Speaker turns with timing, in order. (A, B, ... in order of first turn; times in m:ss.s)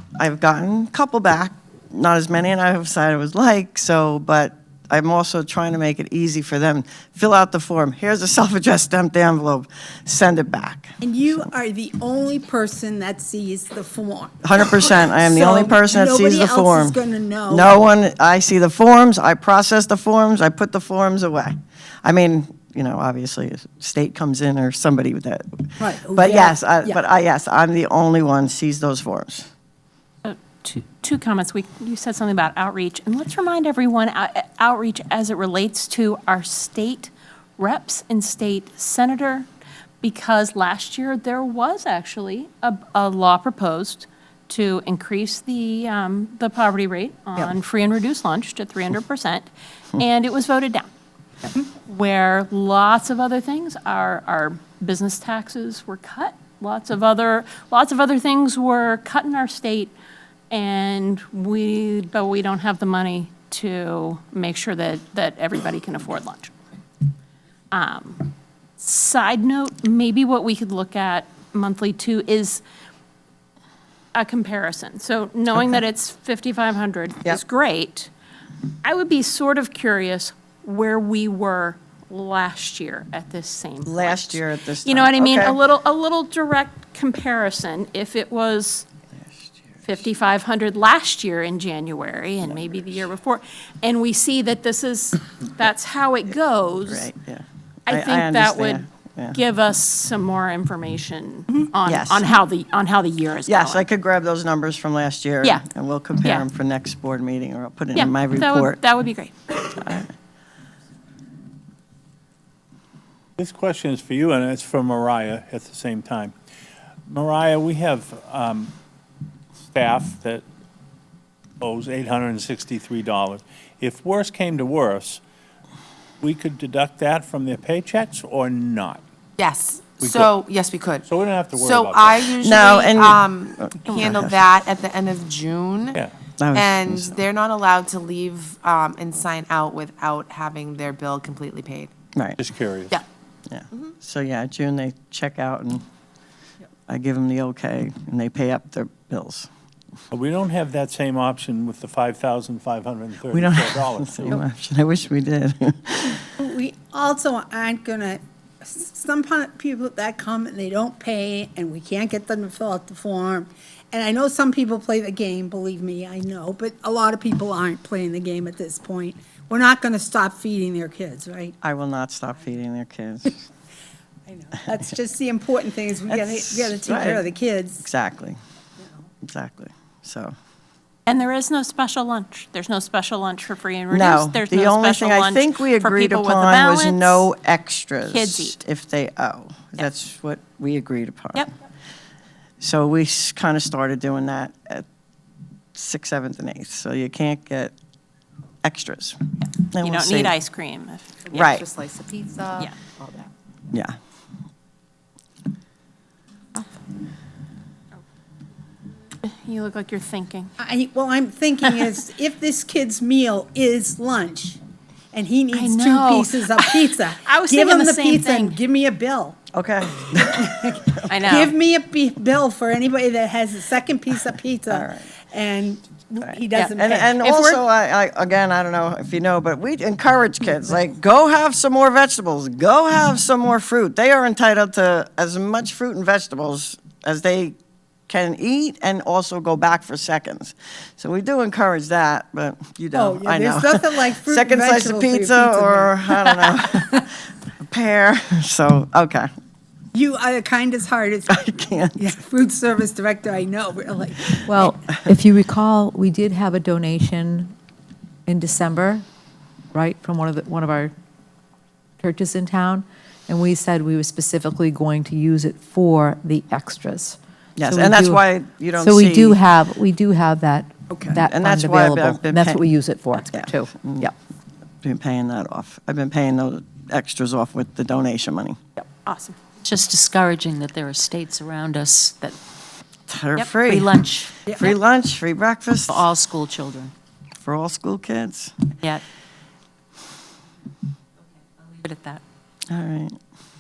0:00.2-0:11.5 A
0:11.0-0:17.7 B
0:14.4-0:29.5 A
0:25.8-0:26.6 B
0:30.2-0:39.5 C
0:40.0-0:50.9 C
0:51.6-0:59.9 C
1:00.5-1:06.5 C
1:07.7-1:12.6 C
1:14.2-1:18.1 C
1:18.8-1:28.9 C
1:23.8-1:25.6 A
1:29.3-1:29.6 A
1:29.8-1:37.1 C
1:32.4-1:33.0 A
1:36.9-1:39.4 A
1:37.9-1:43.9 C
1:41.8-1:42.3 A
1:43.5-1:48.8 A
1:47.9-1:49.8 C
1:49.7-1:50.1 A
1:53.4-1:56.3 D
1:57.1-1:58.7 D
1:59.7-2:00.4 D
2:01.6-2:05.2 D
2:06.2-2:09.0 D
2:09.4-2:16.0 E
2:10.0-2:10.4 D
2:11.0-2:12.5 D
2:12.4-2:14.4 A
2:16.4-2:17.2 A
2:16.5-2:21.9 E
2:22.4-2:23.0 D
2:23.5-2:25.8 A
2:26.9-2:29.5 A
2:30.1-2:34.4 D
2:33.3-2:36.2 A
2:36.4-2:51.5 B
2:51.6-2:53.4 A
2:54.3-2:57.8 B
2:56.1-2:57.2 A
2:57.8-2:58.4 A
2:59.2-3:00.4 A
3:01.1-3:07.3 C
3:03.9-3:11.5 A
3:08.0-3:08.6 C
3:12.6-3:14.8 A
3:15.8-3:17.7 A
3:18.6-3:20.3 A
3:19.4-3:21.4 C
3:21.3-3:23.3 F
3:21.3-3:21.7 A
3:29.2-3:30.5 C
3:30.6-3:34.6 B
3:35.1-3:39.4 B
3:35.5-3:38.6 C
3:39.5-3:41.1 A
3:40.1-3:47.2 B
3:41.1-3:41.5 C
3:44.7-3:45.1 A
3:46.3-3:57.6 A
3:46.6-3:47.6 C
3:58.1-4:09.3 A
4:02.9-4:06.4 B
4:09.9-4:11.4 B
4:11.3-4:12.0 A
4:12.0-4:14.7 B
4:14.5-4:17.5 F
4:18.3-4:19.0 F
4:19.7-4:20.9 F
4:22.0-4:28.2 F
4:27.6-4:29.4 A
4:28.8-4:34.1 F
4:31.2-4:32.6 A
4:33.3-4:34.1 A
4:34.8-4:38.6 A
4:38.8-4:39.4 C
4:39.6-4:42.4 G
4:43.1-4:46.1 A
4:43.6-4:44.3 G
4:45.9-4:46.9 G
4:47.4-4:48.6 A
4:51.8-4:52.2 G
4:52.7-4:53.2 A